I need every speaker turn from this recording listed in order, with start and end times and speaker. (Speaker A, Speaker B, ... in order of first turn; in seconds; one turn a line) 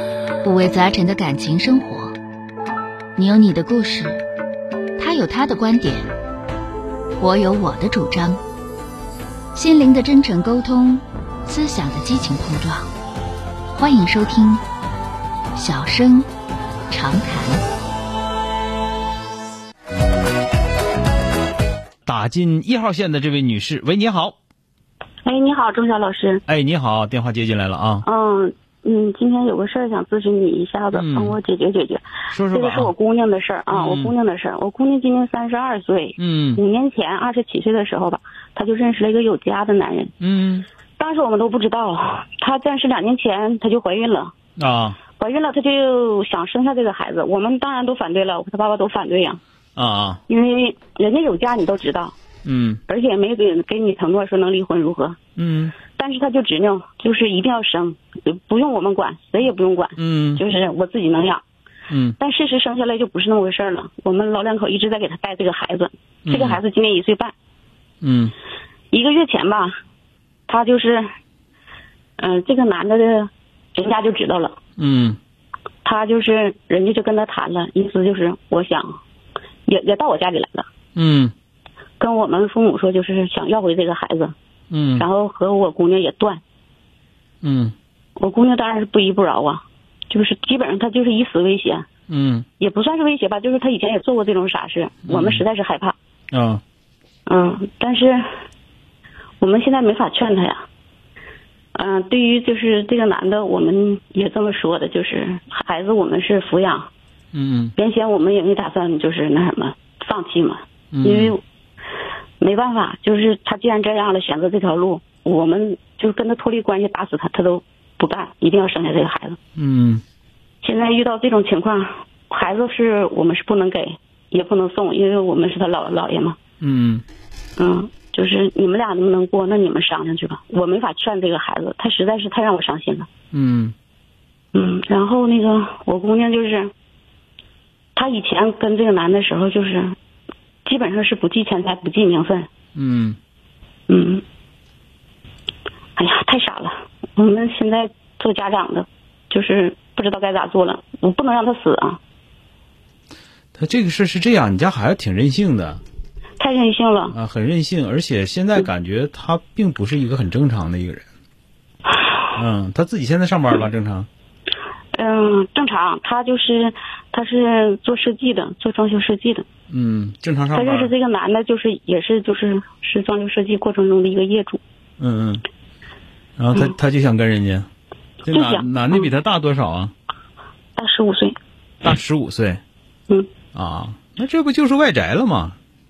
Speaker A: 0.4-2.1
Speaker A: 3.1-4.2
Speaker A: 5.0-6.1
Speaker A: 7.2-8.4
Speaker A: 9.5-12.9
Speaker A: 13.7-14.6
Speaker A: 15.5-16.3
Speaker A: 16.9-17.6
Speaker B: 22.1-24.3
Speaker C: 25.2-26.4
Speaker B: 26.5-28.0
Speaker C: 28.0-40.1
Speaker B: 30.9-31.4
Speaker B: 32.3-32.9
Speaker B: 33.7-34.1
Speaker B: 36.2-36.6
Speaker B: 40.2-40.6
Speaker C: 41.0-44.3
Speaker B: 44.6-45.0
Speaker C: 45.2-49.4
Speaker B: 49.8-50.2
Speaker C: 50.3-52.1
Speaker B: 52.4-52.8
Speaker C: 52.9-55.2
Speaker B: 55.4-55.8
Speaker C: 55.9-61.4
Speaker B: 60.0-60.4
Speaker B: 61.9-62.2
Speaker C: 62.2-67.3
Speaker B: 66.2-66.6
Speaker B: 68.0-68.3
Speaker C: 68.9-69.7
Speaker C: 70.5-71.0
Speaker C: 72.2-74.6
Speaker B: 74.8-75.2
Speaker C: 75.8-78.9
Speaker C: 79.7-80.7
Speaker B: 81.0-81.3
Speaker C: 82.0-84.3
Speaker B: 84.7-85.0
Speaker C: 85.0-86.4
Speaker B: 87.4-87.7
Speaker C: 88.2-91.8
Speaker B: 92.1-92.5
Speaker C: 92.6-95.9
Speaker B: 95.1-95.4
Speaker B: 96.3-96.6
Speaker C: 97.2-98.2
Speaker C: 99.4-100.6
Speaker C: 101.7-106.9
Speaker B: 107.3-107.7
Speaker C: 107.8-111.4
Speaker B: 110.9-111.3
Speaker C: 112.4-119.4
Speaker B: 119.6-120.0
Speaker C: 120.6-126.4
Speaker B: 126.6-127.0
Speaker C: 127.6-133.1
Speaker B: 133.3-133.7
Speaker C: 134.5-136.7
Speaker C: 137.9-139.9
Speaker C: 140.6-142.5
Speaker B: 142.7-143.2
Speaker C: 143.9-144.2
Speaker C: 145.9-152.0
Speaker B: 153.5-155.8
Speaker C: 156.4-157.1
Speaker B: 157.1-161.0
Speaker B: 162.3-164.1
Speaker C: 164.9-169.4
Speaker B: 169.7-170.9
Speaker C: 170.5-174.6
Speaker B: 175.0-175.4
Speaker B: 176.4-177.7
Speaker B: 178.2-179.9
Speaker C: 178.3-179.1
Speaker C: 180.8-181.3
Speaker B: 181.8-182.6
Speaker B: 183.5-185.6